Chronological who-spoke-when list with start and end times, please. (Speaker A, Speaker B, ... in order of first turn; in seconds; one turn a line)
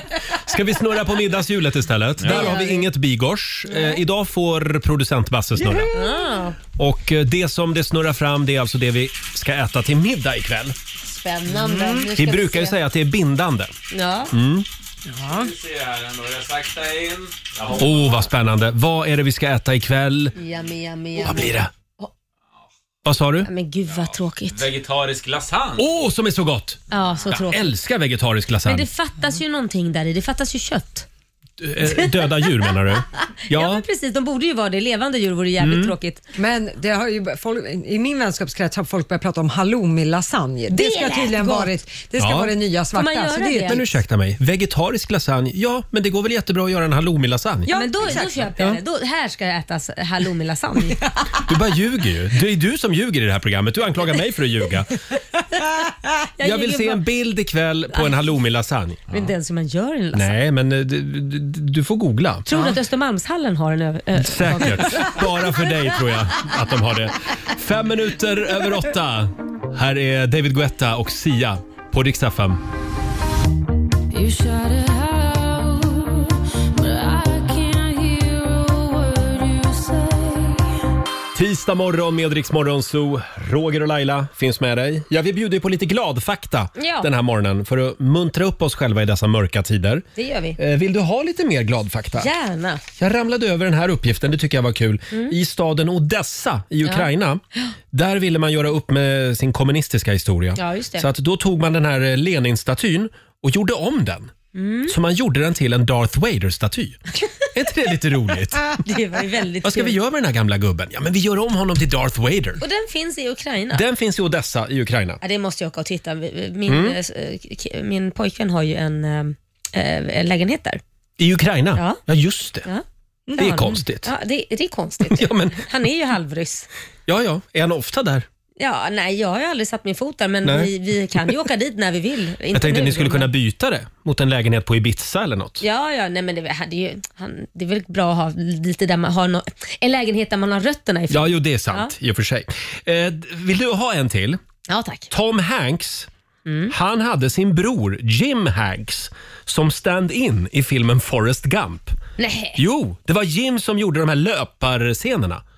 Speaker A: 0.3-5.9
Speaker B: 2.2-2.5
Speaker C: 2.2-2.9
Speaker C: 3.7-4.0
Speaker C: 5.9-6.6
Speaker A: 6.8-10.8
Speaker C: 11.0-12.8
Speaker D: 11.5-12.1
Speaker A: 12.1-13.7
Speaker C: 13.9-14.3
Speaker A: 14.3-14.7
Speaker D: 15.1-15.5
Speaker B: 15.2-18.3
Speaker A: 17.8-20.4
Speaker C: 20.4-22.1
Speaker A: 21.2-21.7
Speaker A: 23.1-23.5
Speaker C: 23.4-24.7
Speaker B: 23.9-25.8
Speaker A: 25.8-28.9
Speaker C: 26.9-27.7
Speaker C: 28.6-31.1
Speaker A: 31.6-33.9
Speaker C: 31.8-32.7
Speaker C: 33.5-36.2
Speaker A: 35.6-35.9
Speaker D: 36.4-43.9
Speaker C: 40.7-41.7
Speaker A: 42.2-42.5
Speaker C: 42.9-43.9
Speaker A: 43.7-48.8
Speaker D: 47.7-48.5
Speaker C: 47.7-51.0
Speaker A: 51.5-55.0
Speaker C: 56.4-57.0
Speaker A: 56.4-59.1
Speaker C: 59.1-60.3
Speaker A: 60.1-62.5
Speaker C: 62.5-65.5
Speaker A: 64.2-72.6
Speaker E: 74.1-80.7
Speaker A: 81.3-90.0
Speaker C: 86.8-87.1
Speaker C: 90.2-90.6
Speaker A: 90.6-92.3
Speaker C: 92.2-92.8
Speaker A: 93.0-104.3
Speaker C: 96.8-97.7
Speaker C: 100.6-101.1
Speaker C: 104.5-104.9
Speaker A: 104.9-108.8
Speaker C: 108.8-110.0
Speaker A: 109.6-112.6
Speaker C: 112.6-113.8
Speaker A: 113.7-115.2
Speaker C: 115.2-120.8
Speaker A: 116.7-117.0
Speaker A: 121.2-122.7
Speaker C: 121.8-122.0
Speaker C: 122.7-126.7
Speaker A: 123.4-124.1
Speaker A: 125.0-125.7
Speaker A: 127.1-128.3
Speaker C: 128.6-133.3
Speaker A: 130.4-131.3
Speaker A: 132.5-135.6
Speaker C: 135.6-141.9
Speaker A: 141.1-144.4
Speaker C: 144.7-145.1
Speaker A: 145.1-146.1
Speaker C: 146.5-146.7
Speaker A: 146.7-152.0
Speaker C: 152.2-152.6
Speaker A: 152.6-155.4